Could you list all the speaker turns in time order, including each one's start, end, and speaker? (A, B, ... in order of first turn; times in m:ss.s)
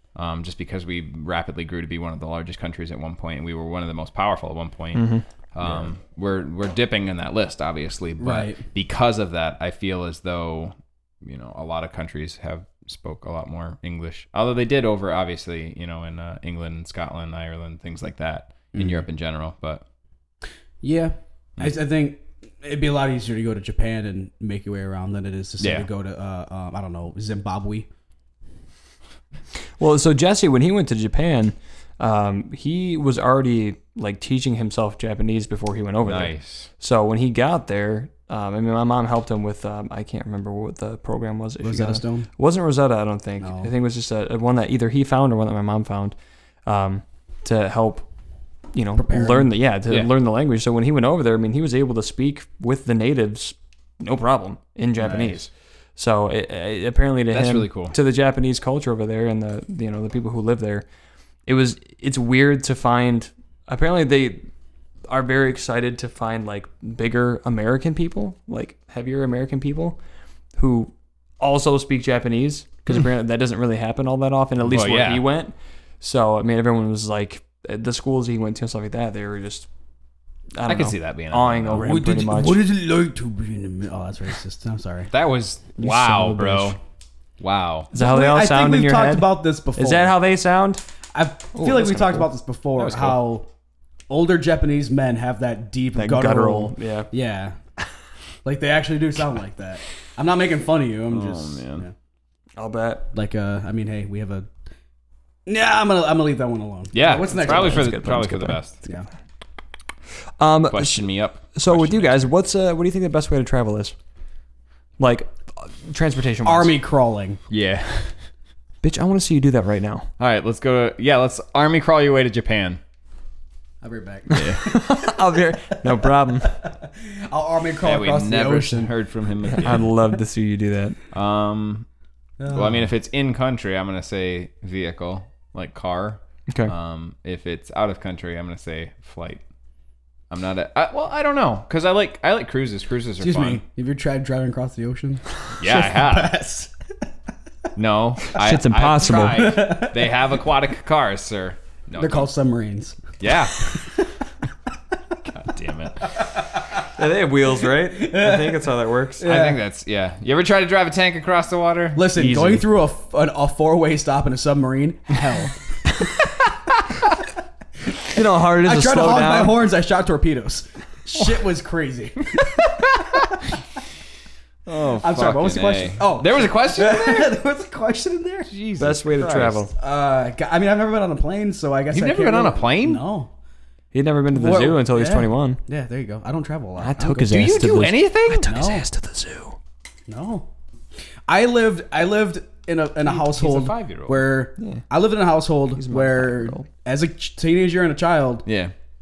0:00.2-0:19.8 A
0:04.9-0:05.2 B
0:05.6-0:05.9 C
0:08.2-0:08.6 C
0:18.7-0:19.0 C
0:20.8-0:27.9 C
0:25.6-0:25.9 A
0:29.8-0:48.1 B
0:36.0-0:36.7 A
0:41.6-0:42.3 C
0:43.4-0:43.7 C
0:48.7-1:00.8 B
0:49.0-0:49.5 C
0:55.0-0:55.4 A
0:57.3-0:58.0 A
1:01.5-1:04.5 B
1:05.1-1:10.0 B
1:10.6-1:19.7 B
1:14.6-1:15.3 A
1:20.6-1:22.6 B
1:20.6-1:21.9 A
1:21.8-1:25.1 C
1:25.1-1:26.8 A
1:25.8-1:26.8 B
1:27.4-1:27.9 A
1:27.9-1:30.8 B
1:27.9-1:30.2 C
1:31.1-1:33.5 C
1:31.6-1:32.3 B
1:32.8-1:33.2 A
1:34.1-1:37.6 C
1:36.0-1:37.1 B
1:38.4-1:41.9 C
1:41.1-1:41.8 A
1:42.6-1:43.1 B
1:43.1-1:44.5 C
1:45.5-1:47.9 C
1:46.9-1:48.8 A
1:47.1-1:48.6 B
1:50.4-1:54.0 B
1:50.7-1:52.3 A
1:55.0-1:56.7 B
1:56.4-1:57.4 C
1:57.5-1:58.2 A
1:58.8-2:00.1 B
2:00.2-2:02.8 A
2:03.8-2:08.9 C
2:04.3-2:04.6 A
2:04.3-2:06.6 B
2:07.8-2:09.8 A
2:09.4-2:09.8 C
2:09.6-2:11.0 B
2:11.1-2:11.9 A
2:12.4-2:12.9 C
2:12.5-2:19.4 A
2:20.3-2:23.6 A
2:23.2-2:26.7 C
2:25.6-2:26.3 A
2:27.8-2:32.3 A
2:28.3-2:29.5 B
2:29.3-2:30.1 C
2:32.0-2:34.1 C
2:33.2-2:33.9 A
2:35.2-2:36.2 A
2:36.2-2:36.8 C
2:36.9-2:39.3 B
2:37.9-2:39.6 C
2:39.2-2:42.1 A
2:42.0-2:46.1 C
2:42.2-2:42.7 B
2:48.1-2:49.6 B
2:48.5-2:53.6 C
2:52.9-2:53.4 A
2:54.7-2:57.4 A
2:55.0-2:58.5 C
2:58.5-2:59.6 A
2:58.8-2:59.7 B
2:59.8-3:03.3 C
3:01.9-3:03.0 A
3:03.9-3:05.6 B
3:04.3-3:07.5 C
3:06.8-3:09.6 B
3:07.3-3:08.5 A
3:08.5-3:08.8 C
3:10.1-3:10.5 C
3:11.3-3:18.5 C
3:13.0-3:14.3 A
3:15.8-3:16.7 B
3:18.5-3:18.7 A